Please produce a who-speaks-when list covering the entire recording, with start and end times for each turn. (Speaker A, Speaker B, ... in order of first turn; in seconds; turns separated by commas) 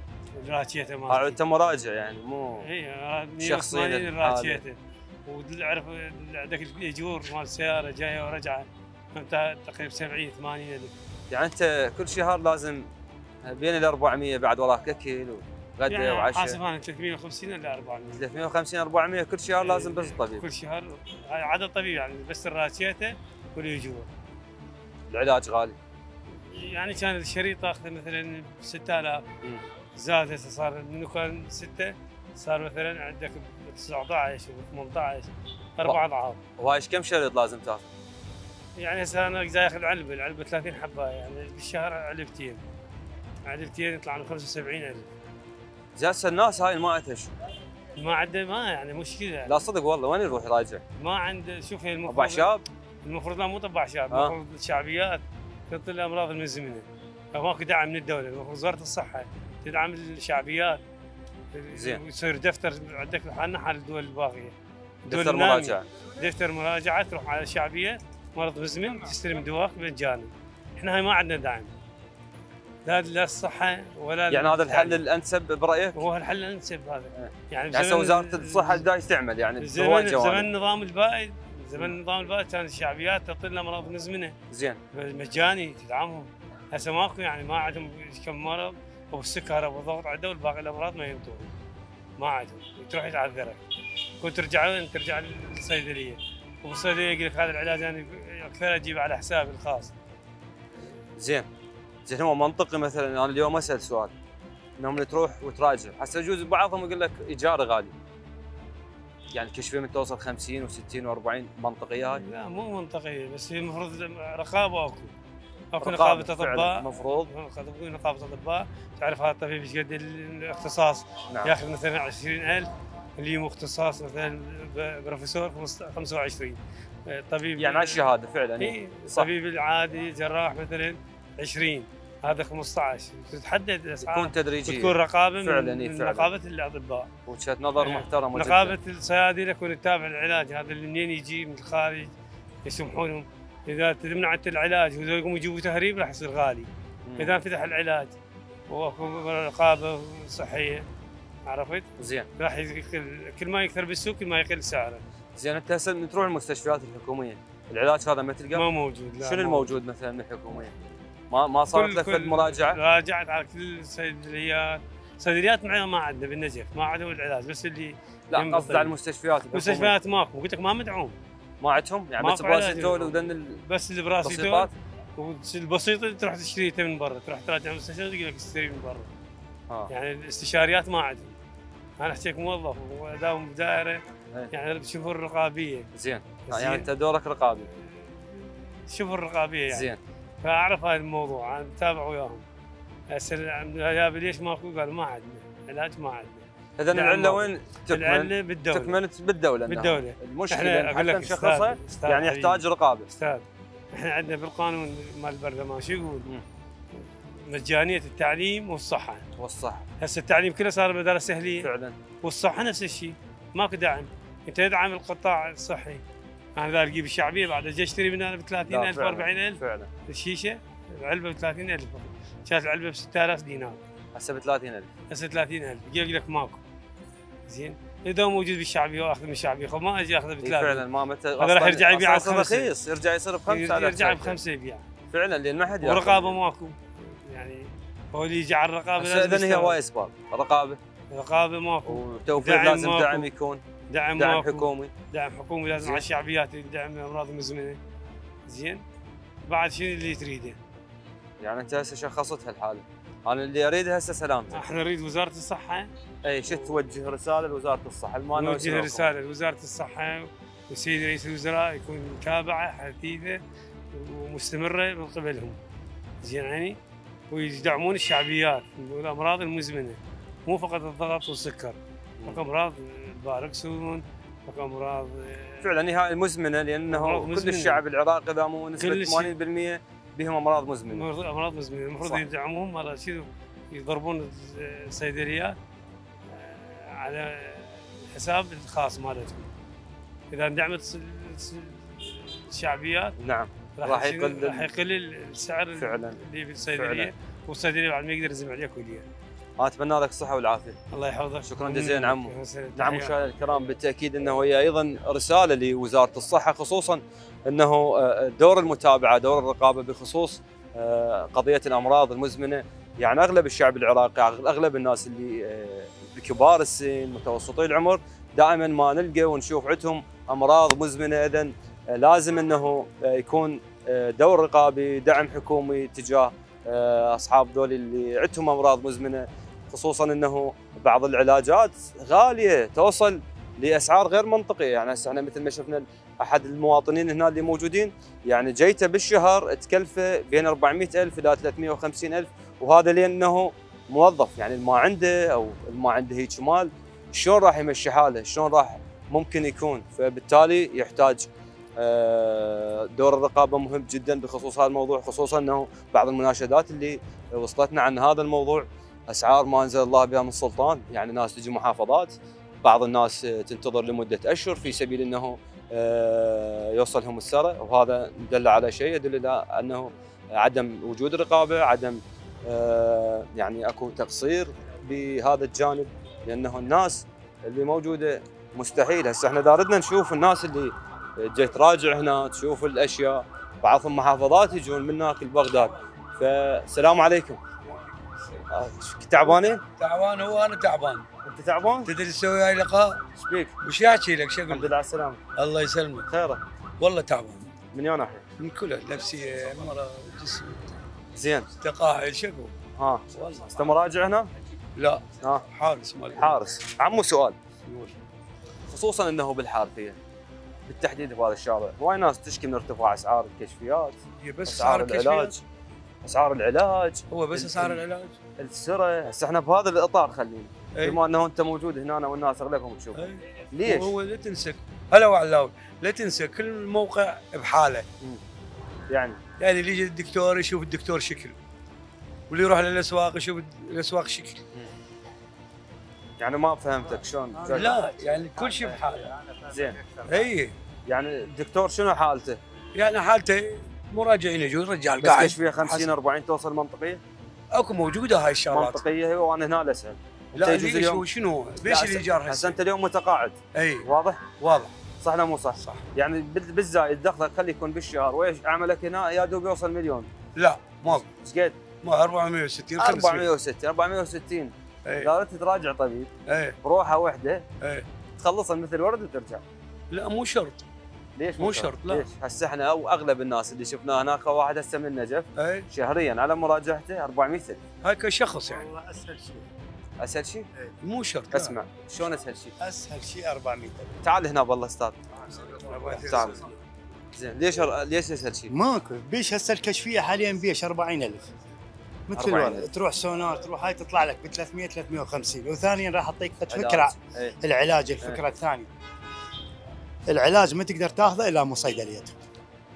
Speaker A: 0.4-1.4, Speaker B: 1.1-2.6, Speaker A: 2.6-10.9, Speaker B: 3.4-4.6, Speaker B: 11.3-12.9, Speaker B: 13.4-16.6, Speaker A: 15.9-18.2, Speaker B: 18.1-20.4, Speaker A: 19.6-24.1, Speaker B: 25.1-25.8, Speaker A: 26.3-29.2, Speaker A: 30.0-36.4, Speaker B: 36.6-37.9, Speaker A: 38.8-42.6, Speaker A: 43.5-45.1, Speaker B: 46.0-47.3, Speaker A: 48.0-49.5, Speaker B: 49.5-50.8, Speaker A: 51.0-52.5, Speaker B: 52.1-52.6, Speaker A: 53.0-60.8, Speaker A: 61.5-64.5, Speaker B: 61.7-62.0, Speaker B: 65.1-65.8, Speaker A: 65.1-71.7, Speaker A: 72.8-75.0, Speaker B: 74.3-76.0, Speaker A: 76.0-78.8, Speaker B: 77.1-80.5, Speaker A: 79.6-84.3, Speaker B: 84.5-84.8, Speaker A: 84.9-91.5, Speaker A: 92.2-93.6, Speaker A: 94.2-99.9, Speaker B: 101.2-101.5, Speaker B: 102.0-104.1, Speaker B: 104.8-107.9, Speaker B: 109.3-112.2, Speaker A: 112.1-115.1, Speaker A: 115.7-128.1, Speaker B: 115.8-117.3, Speaker B: 127.6-129.3, Speaker A: 128.6-137.1, Speaker B: 134.0-136.3, Speaker B: 137.3-138.8, Speaker A: 137.8-142.1, Speaker A: 142.6-148.1, Speaker B: 147.1-147.4, Speaker A: 148.7-150.8, Speaker A: 151.5-151.9, Speaker B: 152.0-152.3, Speaker A: 152.4-155.0, Speaker B: 155.3-158.6, Speaker A: 158.5-159.8, Speaker B: 159.2-160.7, Speaker B: 161.3-162.8, Speaker A: 161.7-168.9, Speaker B: 168.3-169.9, Speaker A: 169.5-171.2, Speaker B: 171.6-173.6, Speaker A: 172.2-179.1, Speaker B: 174.2-174.7, Speaker A: 179.9-181.3, Speaker A: 182.0-185.9, Speaker B: 185.9-187.7, Speaker A: 186.5-186.9, Speaker A: 188.0-189.9, Speaker B: 189.7-190.0, Speaker A: 190.4-192.4, Speaker A: 193.1-199.0, Speaker B: 196.8-203.1, Speaker A: 199.7-206.3, Speaker A: 207.5-209.2, Speaker B: 209.4-209.8, Speaker A: 210.0-211.7, Speaker B: 211.6-211.9, Speaker A: 212.2-216.0, Speaker A: 216.6-223.8, Speaker B: 218.7-219.9, Speaker B: 224.1-224.9, Speaker A: 225.1-226.6, Speaker A: 227.5-230.8, Speaker B: 230.4-234.4, Speaker A: 231.4-232.7, Speaker A: 233.5-234.8, Speaker B: 235.1-236.4, Speaker A: 235.8-239.8, Speaker B: 239.0-240.8, Speaker A: 241.1-243.3, Speaker B: 241.9-243.6, Speaker A: 243.9-247.8, Speaker B: 244.2-244.9, Speaker B: 245.8-246.1, Speaker A: 248.5-248.8, Speaker A: 249.5-250.6, Speaker B: 251.4-254.7, Speaker A: 254.5-255.9, Speaker B: 256.2-259.1, Speaker A: 256.5-256.7, Speaker A: 258.4-263.4, Speaker A: 263.9-265.6, Speaker A: 266.2-266.8, Speaker A: 267.3-275.7, Speaker B: 275.6-281.1, Speaker A: 276.9-277.8, Speaker A: 278.8-279.3, Speaker A: 280.9-285.6, Speaker A: 286.3-289.5, Speaker A: 290.3-293.1, Speaker B: 293.2-294.7, Speaker A: 293.8-299.1, Speaker B: 295.8-296.2, Speaker B: 296.7-297.1, Speaker B: 299.6-300.8, Speaker A: 300.9-303.2, Speaker B: 301.5-387.4, Speaker B: 388.5-389.6, Speaker C: 389.8-391.0, Speaker B: 391.2-391.9, Speaker C: 391.9-393.0, Speaker B: 393.1-393.5, Speaker C: 393.6-394.7, Speaker B: 394.5-395.2, Speaker C: 395.4-396.1, Speaker B: 396.1-396.4, Speaker C: 396.8-397.4, Speaker B: 397.7-398.2, Speaker C: 398.4-400.7, Speaker B: 401.1-401.5, Speaker C: 401.6-402.5, Speaker B: 402.8-404.3, Speaker C: 403.1-403.6, Speaker C: 404.8-406.4, Speaker B: 406.1-407.4, Speaker C: 407.7-407.9, Speaker B: 408.7-410.0, Speaker B: 410.6-415.4, Speaker C: 414.2-415.4, Speaker B: 416.0-417.8, Speaker C: 417.1-418.1, Speaker B: 418.4-423.9, Speaker C: 423.0-427.9, Speaker B: 428.9-429.2, Speaker C: 429.4-431.4, Speaker C: 432.3-434.4, Speaker B: 436.2-437.8, Speaker C: 437.4-439.1, Speaker D: 437.5-437.8, Speaker D: 439.3-440.2, Speaker B: 439.5-439.8, Speaker C: 440.1-440.5, Speaker B: 440.9-442.4, Speaker C: 442.7-445.9, Speaker B: 445.0-447.0, Speaker C: 447.5-448.9, Speaker B: 448.5-451.0, Speaker C: 450.3-452.6, Speaker B: 451.6-454.4, Speaker C: 453.5-454.7, Speaker B: 455.0-460.1, Speaker C: 460.4-461.1, Speaker B: 461.1-461.6, Speaker C: 461.8-463.3, Speaker B: 462.8-466.1, Speaker C: 466.3-466.6, Speaker B: 466.6-467.4, Speaker B: 468.2-469.4, Speaker C: 469.9-470.6, Speaker B: 471.2-477.6, Speaker C: 471.4-472.1, Speaker C: 475.4-475.6, Speaker C: 477.8-478.7, Speaker D: 478.4-479.5, Speaker B: 480.0-480.5, Speaker C: 480.8-481.5, Speaker B: 481.3-482.5, Speaker D: 482.6-484.0, Speaker B: 484.0-484.9, Speaker C: 485.6-486.4, Speaker B: 486.0-486.4, Speaker B: 487.1-488.5, Speaker D: 488.5-491.3, Speaker D: 492.1-498.7, Speaker B: 492.1-492.7, Speaker B: 496.5-497.4, Speaker D: 500.1-502.1